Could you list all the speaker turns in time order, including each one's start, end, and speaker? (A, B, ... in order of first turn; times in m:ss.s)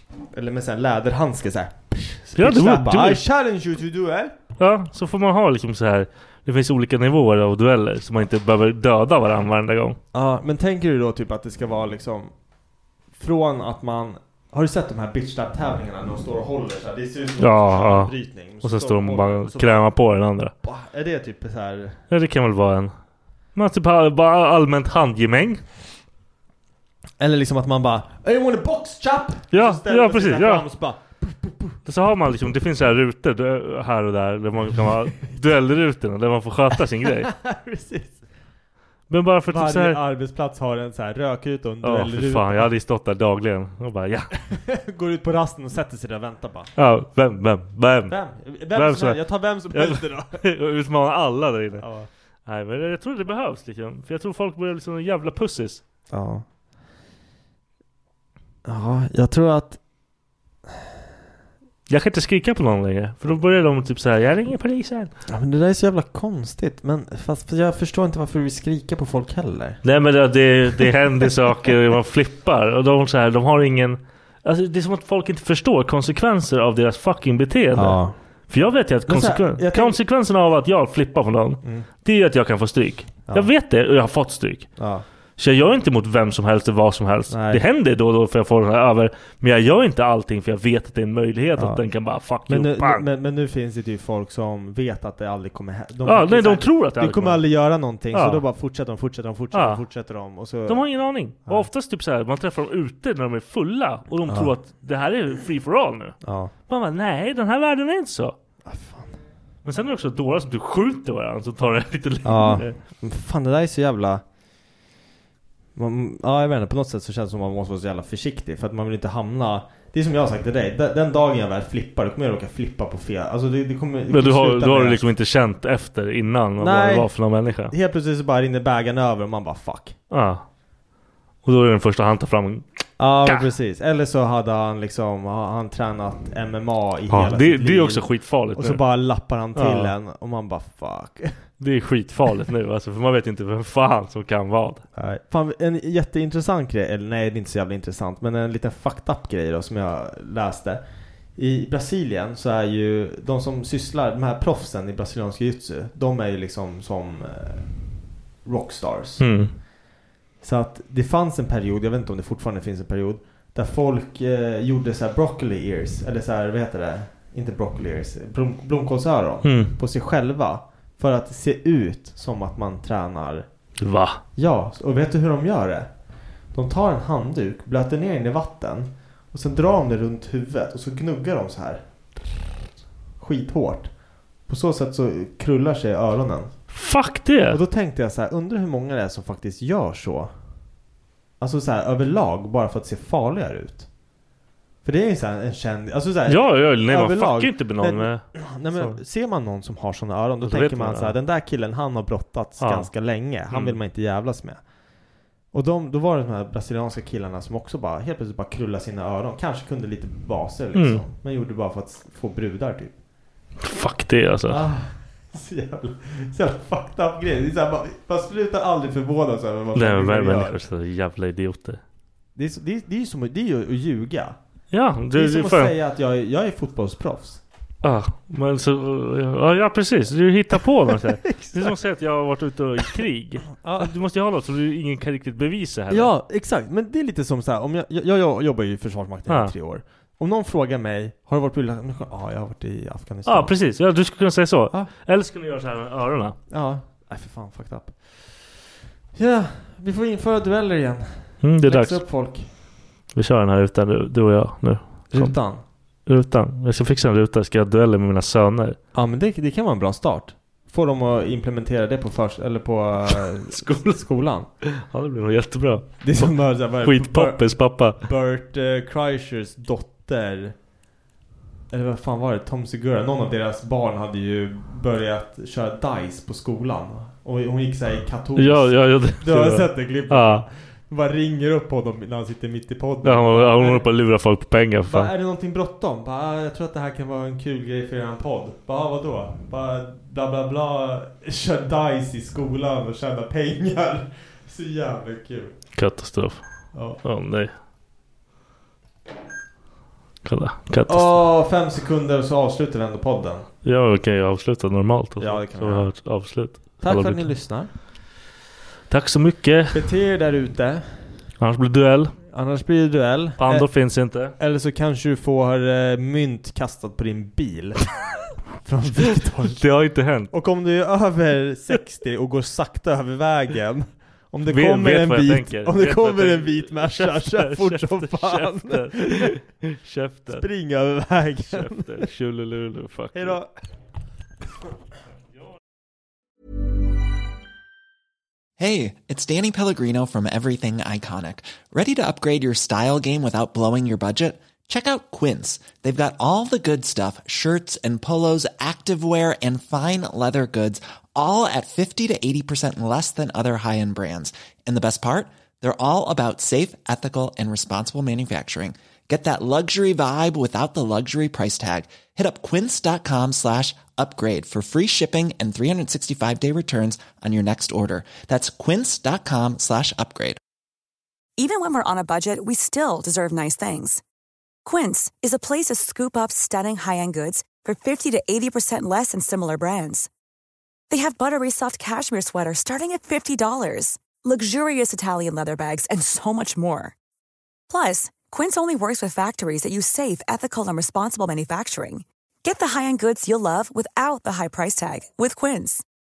0:00.2-0:04.3 A
0:02.4-0:03.2 B
0:04.6-0:10.0 B
0:10.1-0:12.5 A
0:13.1-0:20.0 A
0:17.4-0:20.5 B
0:20.6-0:22.0 A
0:22.1-0:22.9 B
0:23.5-0:25.7 B
0:27.2-0:31.8 A
0:29.5-0:30.7 B
0:31.8-0:37.3 B
0:37.3-0:38.2 A
0:39.1-0:40.0 B
0:39.5-0:42.7 A
0:41.8-0:44.3 B
0:44.5-0:46.7 A
0:46.8-0:51.9 B
0:48.1-0:50.4 A
0:51.8-0:52.1 A
0:52.4-0:55.8 B
0:56.1-0:56.4 A
0:58.6-0:59.8 A
1:01.9-1:05.1 B
1:05.3-1:09.8 A
1:09.8-1:24.8 B
1:17.7-1:18.2 A
1:19.1-1:20.0 A
1:21.6-1:21.9 A
1:24.8-1:25.0 A
1:25.4-1:33.0 B
1:27.3-1:27.6 A
1:31.6-1:31.8 A
1:32.4-1:41.7 A
1:36.0-1:38.4 B
1:39.5-1:39.8 B
1:40.7-1:48.4 B
1:44.3-1:44.6 A
1:46.2-1:46.5 A
1:48.6-1:49.2 A
1:49.6-1:52.8 B
1:52.2-1:54.2 A
1:55.8-2:05.0 A
2:04.1-2:07.7 B
2:06.6-2:10.0 A
2:10.1-2:10.4 B
2:11.4-2:12.7 B
2:13.0-2:21.5 A
2:13.2-2:13.5 B
2:17.1-2:18.8 B
2:19.6-2:19.9 B
2:21.6-2:24.8 B
2:24.9-2:30.8 A
2:31.4-2:37.8 A
2:38.4-2:39.5 A
2:39.2-2:39.6 B
2:40.4-2:53.5 A
2:49.4-2:49.7 B
2:53.8-2:54.2 B
2:54.4-2:55.9 A
2:56.5-3:01.9 A
3:03.2-3:03.9 A
3:04.4-3:06.6 A
3:06.7-3:07.6 B
3:07.5-3:10.3 A
3:11.4-3:13.9 A
3:14.8-3:24.7 A
3:16.3-3:19.0 B
3:20.4-3:21.2 B
3:22.6-3:22.9 B
3:23.5-3:23.8 B
3:25.5-3:32.9 A
3:30.7-3:31.0 B
3:33.6-3:34.6 B
3:34.5-3:40.6 A
3:39.7-3:41.8 B
3:42.4-3:44.4 A
3:44.7-3:45.7 B
3:45.1-3:47.4 A
3:47.8-3:56.1 B
3:51.3-3:51.7 A
3:53.6-3:53.9 A
3:55.9-4:03.5 A
3:59.3-3:59.6 B
4:03.3-4:06.4 B
4:06.5-4:08.6 A
4:09.1-4:12.5 A
4:11.4-4:12.1 B
4:13.1-4:15.4 B
4:15.1-4:15.6 A
4:16.0-4:18.8 B
4:18.9-4:24.5 A
4:23.1-4:24.0 B
4:24.8-4:28.0 B
4:26.0-4:30.6 A
4:31.7-4:43.9 A
4:38.4-4:40.4 B
4:43.0-4:45.1 B
4:44.9-4:55.6 A
4:55.7-4:57.5 B
4:56.7-4:57.0 A
5:00.2-5:01.2 B
5:00.9-5:03.5 A
5:03.6-5:07.4 B
5:05.2-5:06.0 A
5:06.5-5:07.7 A
5:08.9-5:09.8 B
5:09.7-5:10.9 A
5:11.4-5:12.1 B
5:12.3-5:13.7 A
5:13.4-5:14.4 B
5:14.3-5:19.6 A
5:19.5-5:20.3 B
5:20.3-5:29.3 A
5:24.4-5:30.4 B
5:30.3-5:32.1 A
5:31.5-5:33.4 B
5:33.1-5:33.5 A
5:38.6-6:10.4 C
6:11.4-6:14.0 D
6:14.6-6:20.1 D
6:20.9-6:27.0 D
6:27.7-6:35.8 D